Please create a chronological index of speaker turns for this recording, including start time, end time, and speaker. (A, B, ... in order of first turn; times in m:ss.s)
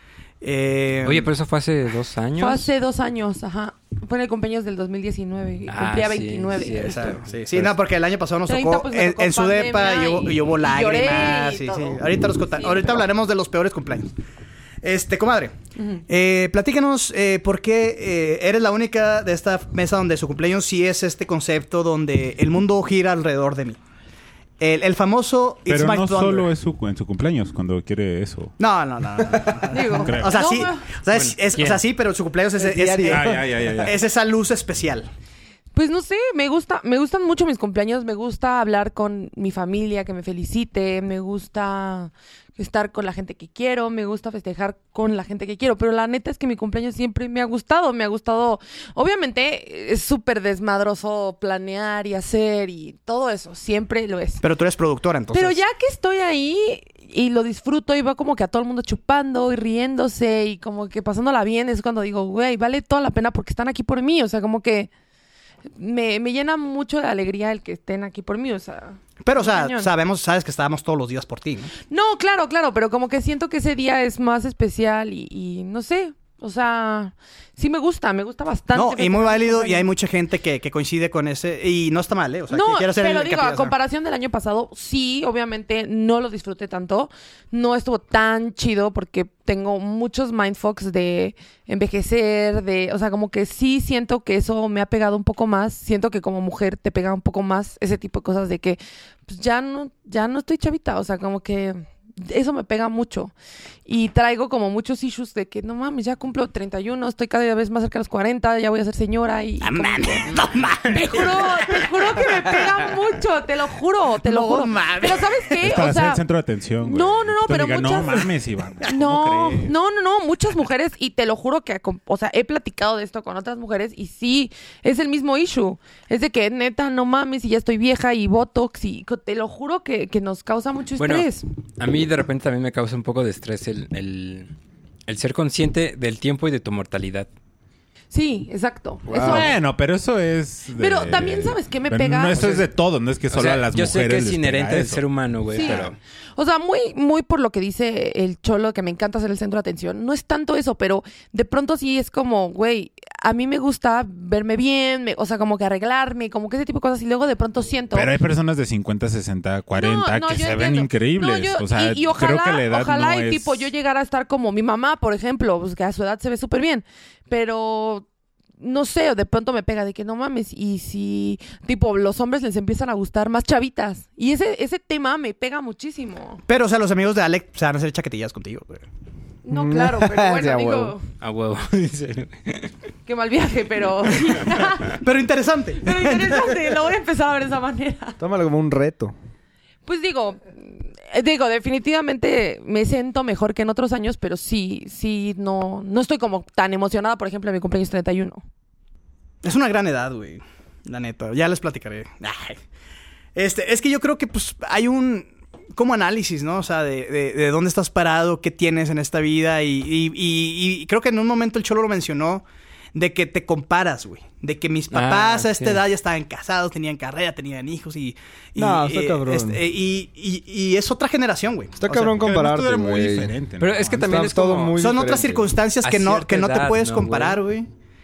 0:00.4-0:01.3 A
0:01.0-0:02.7 B
0:02.4-0:07.2 C
0:05.7-0:07.2 B
0:06.8-0:14.1 A
0:08.5-0:13.0 C
0:14.8-0:15.6 A
0:15.8-0:16.0 C
0:16.1-0:23.8 A
0:24.6-0:26.5 A
0:25.7-0:28.6 D
0:28.6-0:35.1 A
0:29.7-0:30.9 C
0:30.0-0:30.4 D
0:31.1-0:31.8 B
0:32.6-0:33.9 E
0:33.1-0:34.0 D
0:35.7-0:54.4 C
0:54.4-0:55.6 A
0:55.3-1:04.9 C
1:05.8-1:09.9 C
1:09.2-1:11.7 A
1:11.9-1:19.9 C
1:18.7-1:23.8 A
1:22.5-1:43.3 C
1:43.9-1:56.2 C
1:49.6-1:52.6 A
1:54.2-1:55.6 A
1:55.6-1:59.7 D
1:56.8-2:11.5 C
2:11.0-2:14.5 B
2:15.1-2:17.3 B
2:18.1-2:19.6 C
2:19.1-2:19.6 E
2:19.2-2:25.0 D
2:20.7-2:22.7 C
2:23.3-2:26.0 B
2:25.5-2:38.2 C
2:25.6-2:25.9 D
2:37.9-2:43.7 D
2:39.7-2:48.1 C
2:48.6-2:56.4 C
2:56.5-2:58.8 A
2:59.4-3:01.1 C
2:59.5-3:01.0 E
3:01.2-3:02.7 B
3:03.1-3:05.0 C
3:04.9-3:06.6 A
3:05.8-3:08.2 C
3:08.2-3:09.2 E
3:09.8-3:18.4 C
3:19.4-3:22.6 A
3:23.4-3:42.1 A
3:34.9-3:35.8 B
3:38.6-3:39.6 E
3:41.8-3:43.4 E
3:42.1-3:44.2 D
3:43.6-3:44.9 B
3:43.9-3:45.5 E
3:44.8-3:47.7 A
3:45.8-3:47.4 B